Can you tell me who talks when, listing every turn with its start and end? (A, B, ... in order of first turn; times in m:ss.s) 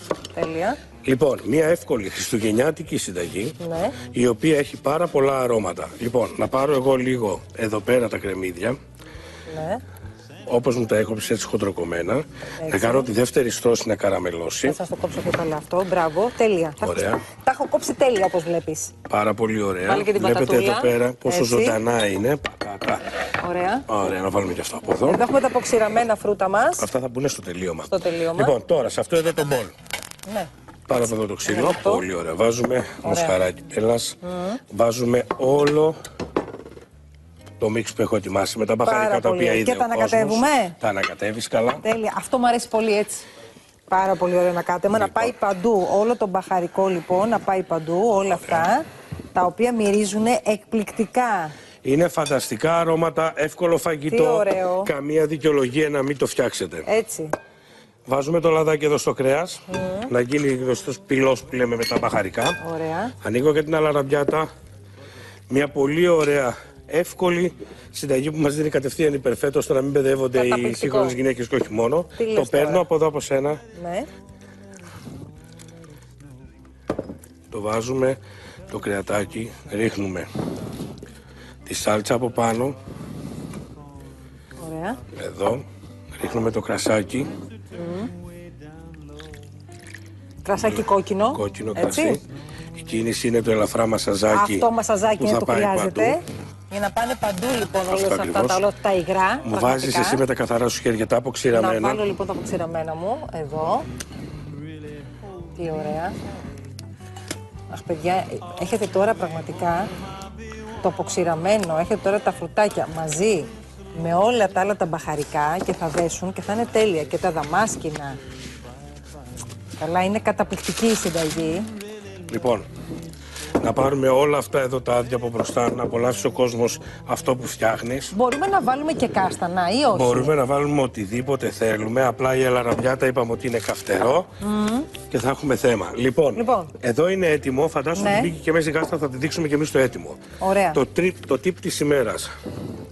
0:00.3-0:00.8 A
0:01.0-0:08.8 B
0:03.6-0:04.0 A
0:09.5-0:09.8 A
0:10.5-0:14.8 B
0:12.6-0:13.1 A
0:14.6-0:18.9 A
0:16.8-0:17.2 B
0:19.1-0:23.0 B
0:19.8-0:21.8 A
0:23.4-0:23.8 A
0:23.9-0:25.2 B
0:25.0-0:26.9 A
0:26.8-0:29.7 B
0:27.9-0:28.5 A
0:30.9-0:34.2 B
0:31.4-0:32.0 A
0:33.0-0:33.3 A
0:34.2-0:34.6 A
0:34.7-0:35.9 B
0:37.6-0:41.8 B
0:38.8-0:40.8 A
0:41.8-0:43.2 A
0:43.9-0:48.8 A
0:44.9-0:45.3 B
0:48.3-0:48.7 B
0:49.3-0:51.5 A
0:51.8-0:56.9 B
0:54.1-0:54.9 A
0:56.8-0:57.3 A
0:58.1-1:02.6 B
0:59.7-1:00.1 A
1:02.6-1:03.1 A
1:03.2-1:04.5 B
1:05.5-1:13.6 B
1:10.3-1:11.2 A
1:12.2-1:12.8 A
1:13.7-1:14.1 A
1:17.5-1:20.3 B
1:21.6-1:22.7 B
1:24.6-1:25.0 A
1:25.1-1:25.6 B
1:26.1-1:27.3 B
1:27.7-1:28.1 A
1:30.4-1:32.2 A
1:30.6-1:32.2 B
1:32.8-1:36.2 B
1:34.3-1:40.2 A
1:37.9-1:38.6 B
1:39.4-1:42.0 B
1:41.5-1:43.8 A
1:45.6-1:46.2 A
1:47.7-1:49.9 A
1:50.8-1:58.2 A
1:59.8-2:01.7 A
2:02.3-2:02.6 B
2:03.6-2:08.1 B
2:08.1-2:10.3 A
2:09.9-2:14.3 B
2:14.4-2:14.9 A
2:15.1-2:20.2 B
2:16.3-2:16.7 A
2:17.9-2:18.3 A
2:20.4-2:20.8 A
2:20.7-2:22.3 B